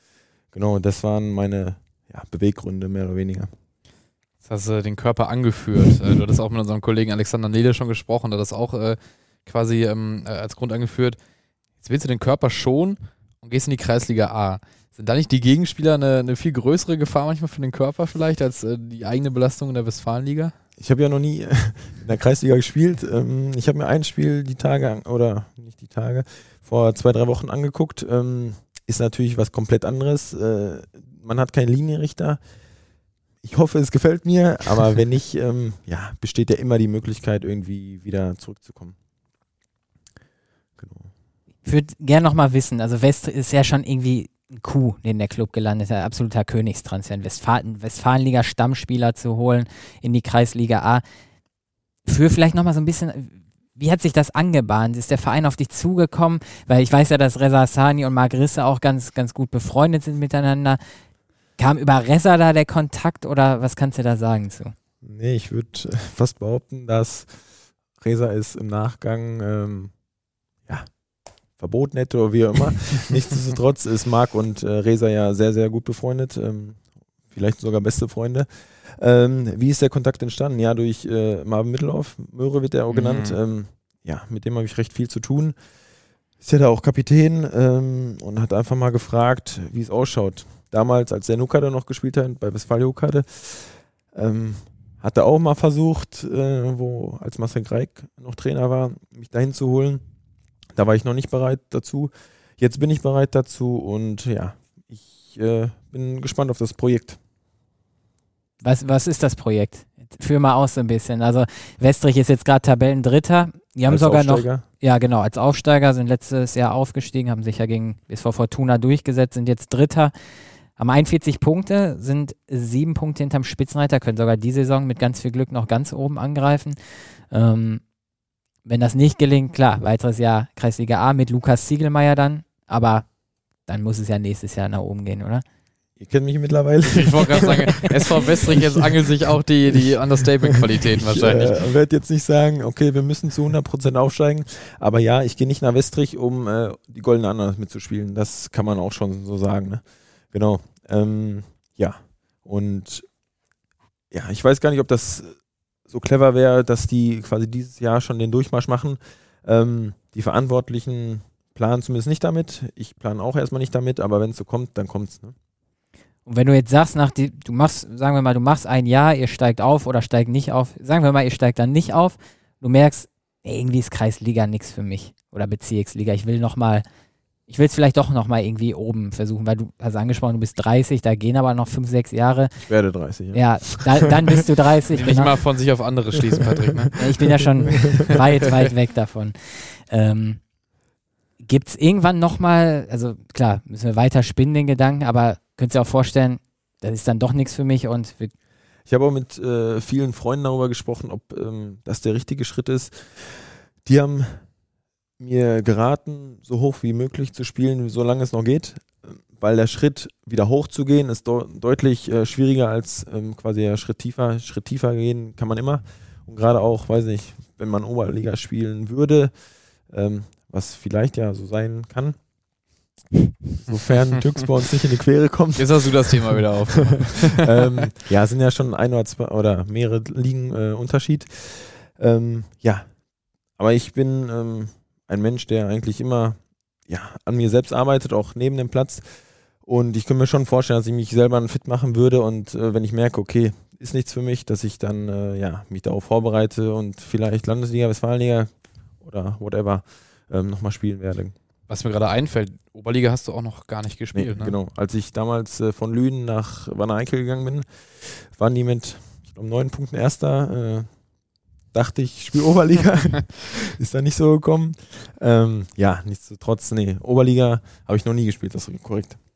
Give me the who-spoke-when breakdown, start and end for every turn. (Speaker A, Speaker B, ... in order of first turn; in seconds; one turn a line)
Speaker A: 0.5-3.5
Speaker B: 4.4-11.2
Speaker B: 11.8-20.5
Speaker A: 20.8-32.4
Speaker A: 33.4-38.9
Speaker A: 40.8-41.1
Speaker C: 41.6-51.0
Speaker C: 52.0-60.8
Speaker C: 61.6-64.7
Speaker A: 65.0-67.3
Speaker A: 68.0-69.9
Speaker A: 70.7-70.9
Speaker A: 71.6-85.5
Speaker B: 82.9-83.4
Speaker A: 86.4-100.0
Speaker A: 100.8-107.2
Speaker C: 108.6-120.1
Speaker A: 113.8-114.6
Speaker C: 120.8-126.8
Speaker C: 127.3-127.8
Speaker C: 128.6-133.1
Speaker C: 133.7-135.4
Speaker A: 136.0-153.1
Speaker B: 136.8-141.6
Speaker C: 137.3-137.8
Speaker A: 154.1-155.3
Speaker A: 155.9-165.3
Speaker C: 166.2-176.8
Speaker C: 177.5-182.5
Speaker A: 182.6-184.1
Speaker C: 183.3-185.3
Speaker B: 184.9-187.0
Speaker C: 186.9-190.4
Speaker B: 187.7-188.0
Speaker A: 187.7-188.0
Speaker C: 191.4-198.3
Speaker A: 198.9-204.4
Speaker A: 205.2-219.3
Speaker A: 219.9-222.2
Speaker A: 223.6-226.4
Speaker B: 225.6-227.8
Speaker A: 227.3-232.9
Speaker A: 233.6-239.1
Speaker A: 239.6-251.3
Speaker B: 251.7-254.6
Speaker A: 254.1-260.9
Speaker A: 261.7-269.2